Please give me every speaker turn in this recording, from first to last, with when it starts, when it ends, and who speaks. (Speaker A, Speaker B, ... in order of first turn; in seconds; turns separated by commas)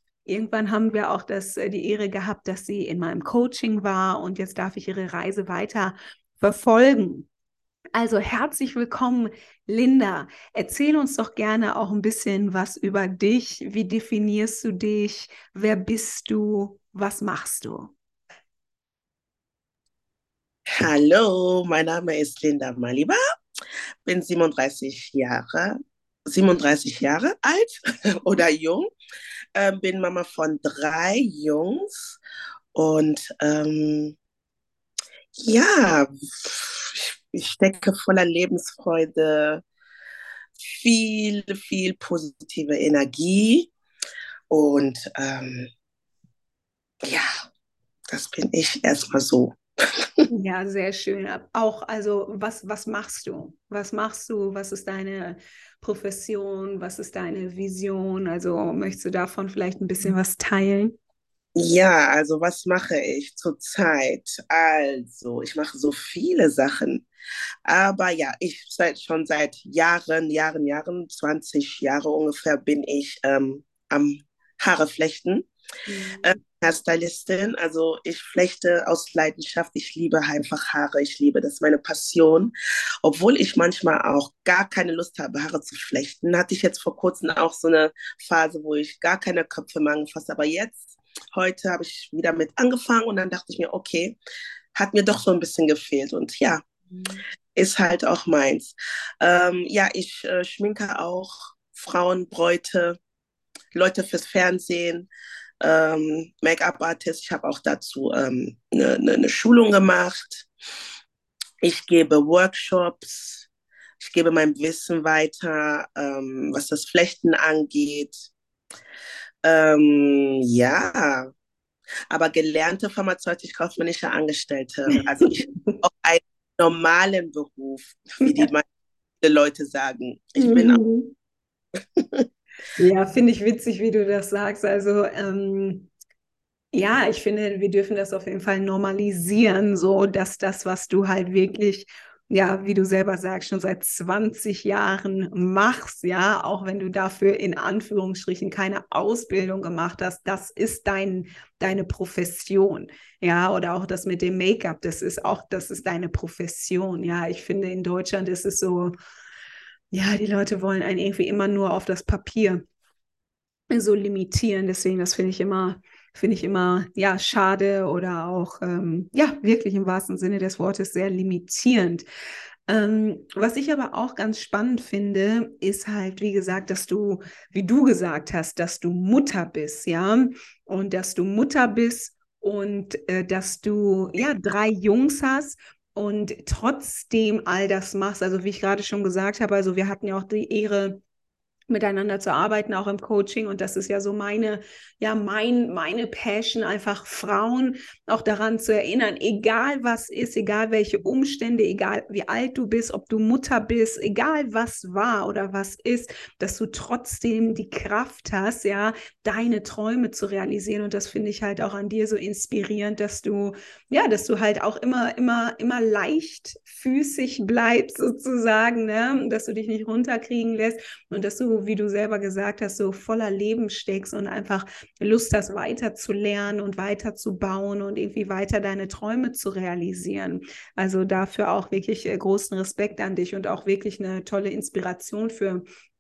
Speaker A: 0.3-7.3, Speaker A: 8.0-17.9, Speaker B: 20.8-23.2, Speaker B: 24.1-25.8, Speaker B: 26.3-28.9, Speaker B: 29.6-32.2, Speaker B: 32.7-34.2, Speaker B: 35.4-39.6, Speaker B: 40.6-43.7, Speaker B: 44.5-45.7, Speaker B: 47.0-47.3, Speaker B: 48.1-50.3, Speaker A: 50.3-60.9, Speaker B: 61.6-67.1, Speaker B: 67.7-75.5, Speaker A: 75.9-76.4, Speaker B: 76.2-82.5, Speaker B: 83.0-94.2, Speaker B: 94.8-96.6, Speaker A: 96.9-97.2, Speaker B: 97.5-103.0, Speaker B: 103.7-105.1, Speaker B: 105.6-110.5, Speaker B: 111.6-113.5, Speaker B: 114.0-118.2, Speaker B: 119.5-121.3, Speaker B: 122.1-128.7, Speaker A: 124.9-125.8, Speaker A: 128.2-128.5, Speaker B: 129.2-130.8, Speaker A: 130.4-131.1, Speaker B: 132.0-132.3, Speaker A: 132.8-135.9, Speaker A: 136.7-158.9, Speaker A: 159.9-162.7, Speaker A: 163.7-172.1, Speaker A: 172.7-191.0, Speaker A: 191.7-235.6